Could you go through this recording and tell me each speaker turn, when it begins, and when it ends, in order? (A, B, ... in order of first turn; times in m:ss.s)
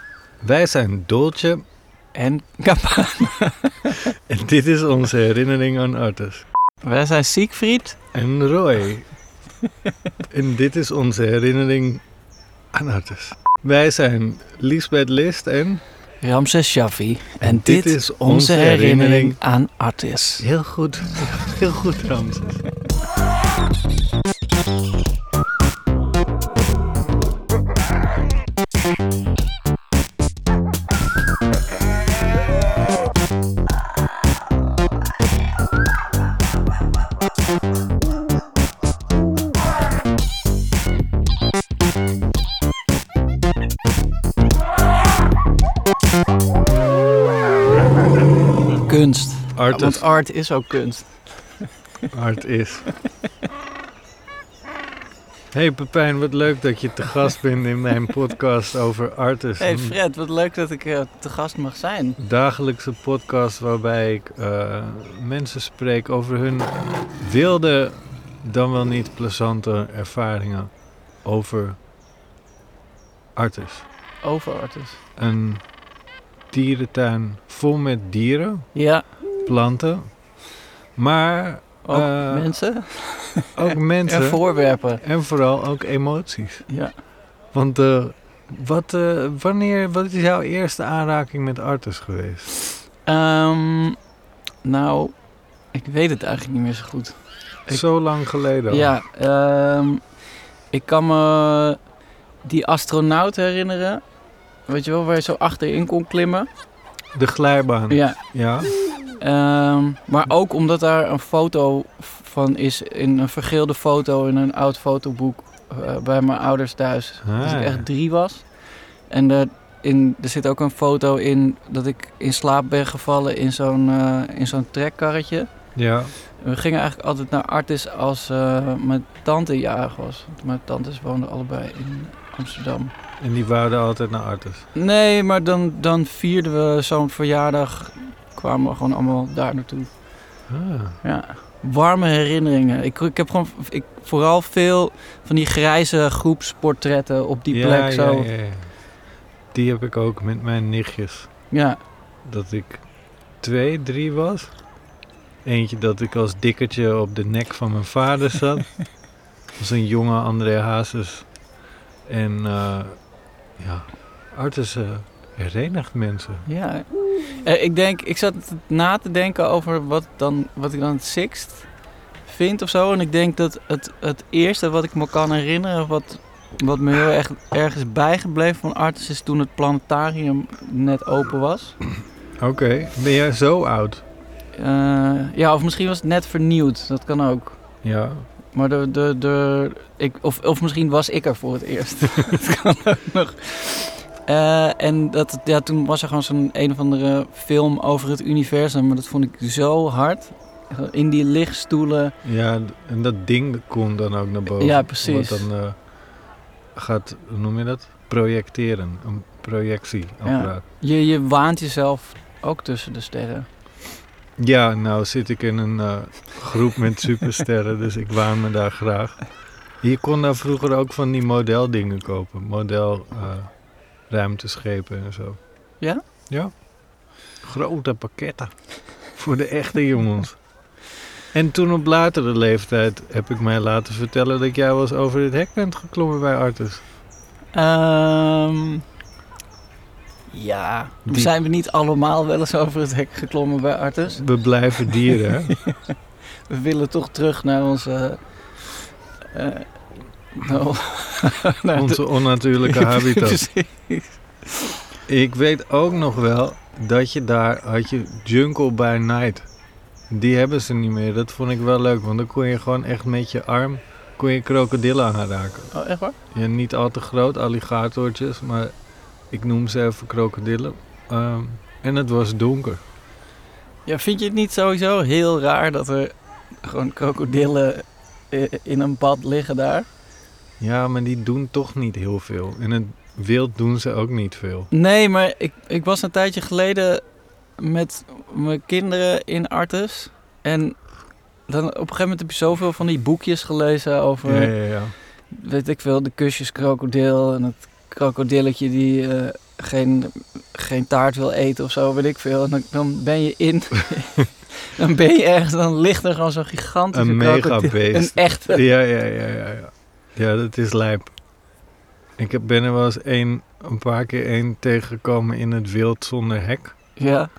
0:00.4-0:01.6 A
0:02.1-0:04.1 B
0:04.3-0:06.4 A
0:06.8-0:08.0 B
0:08.1-0:09.1 A
0:10.3-0:12.0 A
0:12.7-0:15.8 A
0:16.2-0:20.4 B
0:17.4-0:19.4 A
0:20.4-0:22.6 A
0:48.8-0:51.2 B
0:49.5-0:50.0 A
0:52.1-0:52.9 A
0:55.5-1:00.0 A
0:59.6-1:02.2 B
1:02.2-1:10.7 A
1:11.2-1:11.8 A
1:13.4-1:13.8 A
1:14.2-1:15.0 B
1:15.2-1:15.6 A
1:16.5-1:18.6 A
1:18.7-1:19.0 B
1:19.4-1:20.1 A
1:21.0-1:22.5 A
1:21.8-1:25.0 B
1:23.5-1:24.4 A
1:25.0-1:26.7 A
1:26.7-1:26.9 B
1:27.5-1:32.5 A
1:33.0-1:34.0 B
1:34.6-1:35.1 B
1:35.7-1:37.8 B
1:37.7-1:38.9 A
1:38.7-1:40.0 B
1:40.7-1:41.8 B
1:42.4-1:44.0 B
1:44.7-1:46.5 B
1:47.1-1:48.7 A
1:47.9-1:48.2 B
1:49.2-1:58.5 B
1:57.2-1:57.8 A
1:59.1-2:05.5 B
2:05.8-2:06.1 A
2:06.4-2:12.9 B
2:13.2-2:14.6 A
2:14.7-2:19.9 B
2:20.5-2:21.0 A
2:21.0-2:28.3 B
2:27.5-2:28.7 A
2:29.5-2:31.3 A
2:31.5-2:31.8 B
2:32.2-2:32.8 A
2:33.4-2:34.5 A
2:35.4-2:38.8 A
2:39.6-2:41.3 A
2:42.1-2:43.0 A
2:43.6-2:46.4 A
2:46.4-2:51.7 B
2:52.2-3:01.8 B
3:02.4-3:04.0 A
3:04.5-3:07.6 B
3:07.8-3:08.3 A
3:08.5-3:22.1 B
3:22.2-3:25.8 A
3:24.5-3:25.5 B
3:26.8-3:30.6 A
3:30.2-3:33.5 B
3:34.4-3:39.3 A
3:39.8-3:43.5 A
3:44.1-3:45.4 A
3:47.4-3:48.5 A
3:49.1-3:50.4 A
3:51.3-3:56.8 A
3:57.5-3:58.8 B
4:00.3-4:04.2 B
4:01.0-4:01.3 A
4:04.2-4:05.5 A
4:05.3-4:05.9 B
4:06.5-4:08.2 B
4:09.3-4:09.7 B
4:10.3-4:12.1 B
4:11.7-4:13.4 A
4:12.6-4:14.2 B
4:15.1-4:19.4 A
4:20.1-4:25.7 A
4:25.7-4:26.1 B
4:26.3-4:28.7 A
4:29.3-4:32.8 A
4:33.8-4:39.9 B
4:40.6-4:44.7 A
4:44.7-4:47.0 B
4:47.6-4:50.8 B
4:51.5-4:54.5 B
4:54.2-4:54.9 A
4:55.3-5:08.6 B
5:06.9-5:11.1 A
5:12.2-5:16.7 A
5:17.0-5:17.3 B